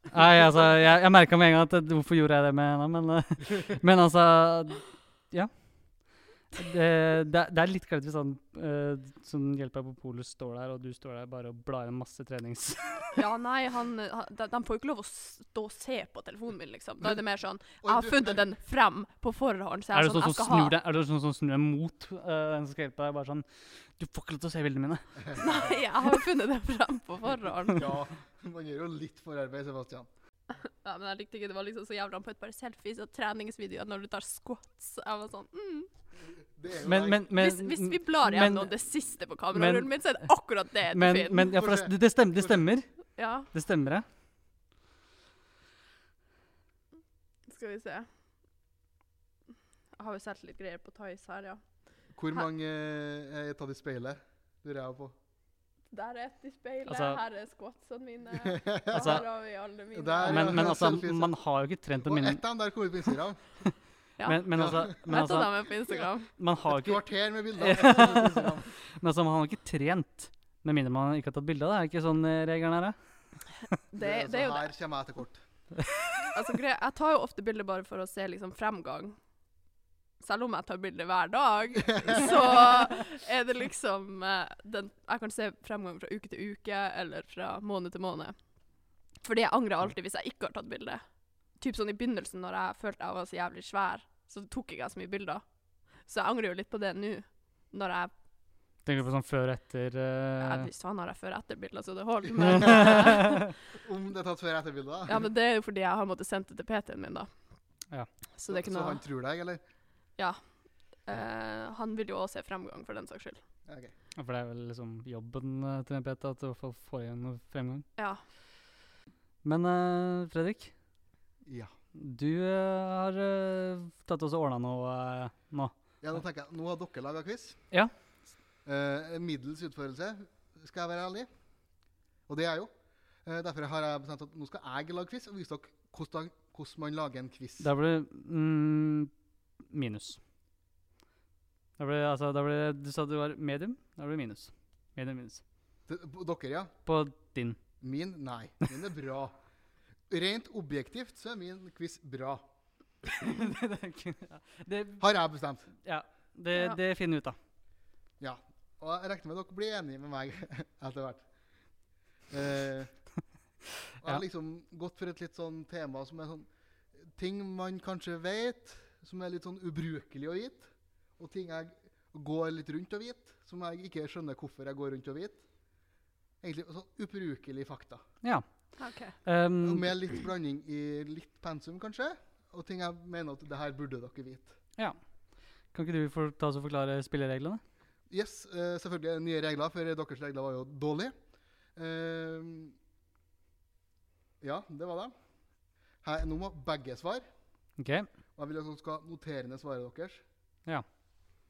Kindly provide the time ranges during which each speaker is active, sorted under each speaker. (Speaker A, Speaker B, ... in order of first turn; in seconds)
Speaker A: 0.1-13.2, 19.9-25.4, 36.9-38.7, 39.5-40.1, 40.9-42.9, 43.5-44.0, 56.9-57.2, 58.9-59.2, 60.2-62.4, 64.2-65.7, 66.3-67.0, 67.5-73.4, 98.8-100.7, 102.6-103.3, 114.2-117.9, 119.4-120.7, 122.0-125.8, 137.6-139.1, 139.6-140.2, 141.8-145.4, 146.9-147.6, 153.1-155.1, 155.8-157.4, 178.2-179.9, 185.7-187.6, 197.8-198.1
Speaker B: 13.1-20.8, 25.4-27.9, 30.6-35.9, 37.3-41.5, 43.2-43.5, 47.5-48.1, 50.0-51.6, 55.9-60.6, 64.2-66.3, 73.9-74.7, 76.3-79.2, 80.2-88.4, 89.2-95.5, 96.0-98.1, 100.4-103.4, 105.1-107.3, 108.4-109.0, 110.2-110.4, 111.0-113.4, 118.0-118.2, 178.8-179.2
Speaker C: 17.8-18.4, 27.7-30.1, 36.4-37.3, 41.5-42.6, 52.1-55.2, 58.4-59.2, 59.9-61.3, 62.0-63.6, 64.5-64.9, 66.7-68.8, 74.0-75.4, 102.6-103.0, 103.7-105.2, 108.5-109.6, 113.7-113.9, 121.5-121.7, 126.0-127.6, 128.7-131.3, 132.3-132.7, 133.2-137.7, 145.9-146.7, 147.8-149.4, 150.1-152.5, 155.0-155.7, 158.2-161.2, 162.3-162.9, 164.0-175.4, 176.4-178.0, 179.6-184.6, 188.1-191.2, 191.8-192.8, 194.4-195.1, 196.0-197.3, 198.4-200.2